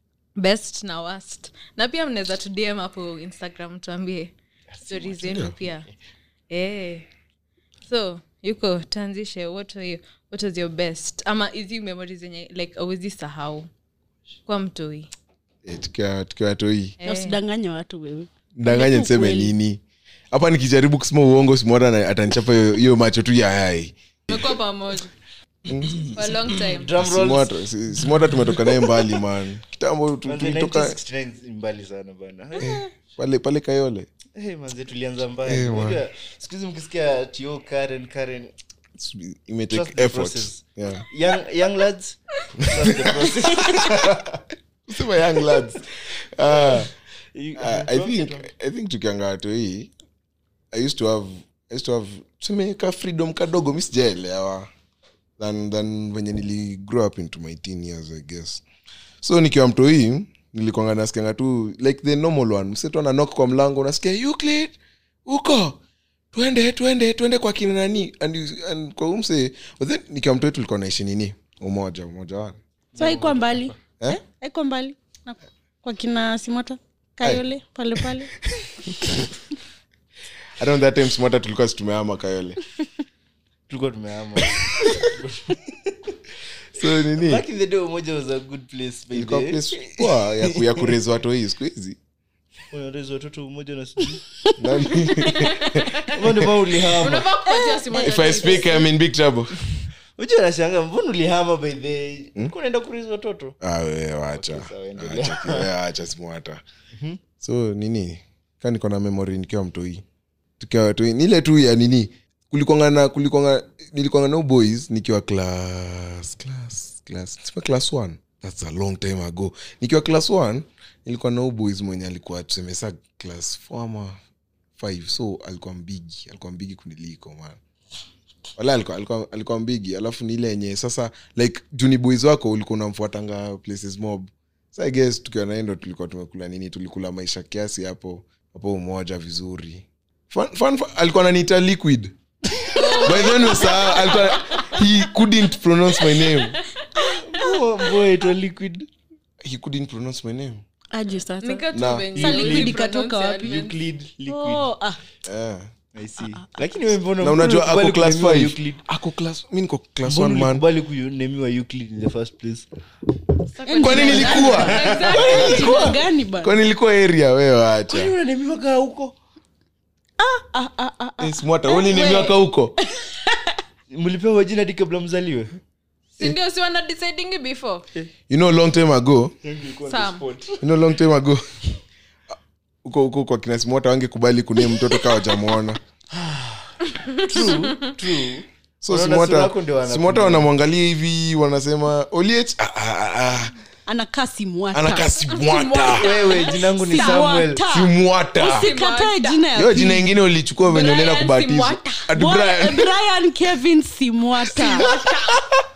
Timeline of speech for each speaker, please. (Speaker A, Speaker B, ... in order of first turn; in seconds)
Speaker A: 0.4-4.3, 4.9-5.9, 6.5-7.1, 7.9-13.7, 14.5-15.1, 17.0-17.4, 24.3-25.1, 26.0-26.9, 95.2-96.2, 96.8-98.9, 142.7-144.7, 146.1-146.6, 151.4-153.8, 163.6-165.9, 176.2-177.9, 179.9-180.2, 187.1-187.7, 195.3-197.2, 198.4-199.4, 200.6-202.1, 204.8-205.3
Speaker B: 4.7-5.9, 26.6-27.6, 30.3-32.8, 34.4-38.5, 39.7-44.4, 46.4-48.5, 72.9-73.8, 83.7-86.2, 86.8-91.0, 92.7-94.2, 96.1-97.3, 100.2-103.6, 104.3-105.7, 106.9-107.2, 147.0-148.9, 152.2-152.8, 153.4-154.7, 155.9-158.8, 160.0-162.7, 163.9-165.8, 167.9-169.2, 173.9-175.6, 179.4-180.7, 186.1-190.5, 195.9-197.7
Speaker C: 5.3-5.5, 15.6-16.9, 18.6-19.8, 20.3-24.5, 25.7-26.4, 27.0-31.0, 32.6-34.1, 35.5-36.0, 39.0-41.1, 42.7-44.3, 44.9-46.9, 47.6-49.9, 50.7-54.7, 55.4-58.6, 59.2-65.8, 66.3-72.6, 78.6-79.2, 80.6-82.6, 84.6-85.1, 86.8-87.4, 89.1-92.0, 94.6-96.4, 97.9-99.8, 103.6-106.6, 107.4-110.0, 110.6-124.2, 124.8-127.6, 128.6-146.6, 149.4-150.6, 151.7-152.1, 155.2-155.7, 157.2-160.6, 163.8-168.1, 171.2-172.8, 178.3-179.3, 180.6-181.5, 182.8-185.8, 188.8-193.5, 194.7-196.1, 197.7-198.7, 199.6-202.9, 204.5-205.6
Speaker D: 17.0-19.5, 73.0-78.3, 94.5-95.5, 97.5-98.8, 150.9-153.7, 154.3-155.0, 163.6-166.5, 170.2-173.5, 193.9-195.1, 196.3-200.1, 202.1-204.9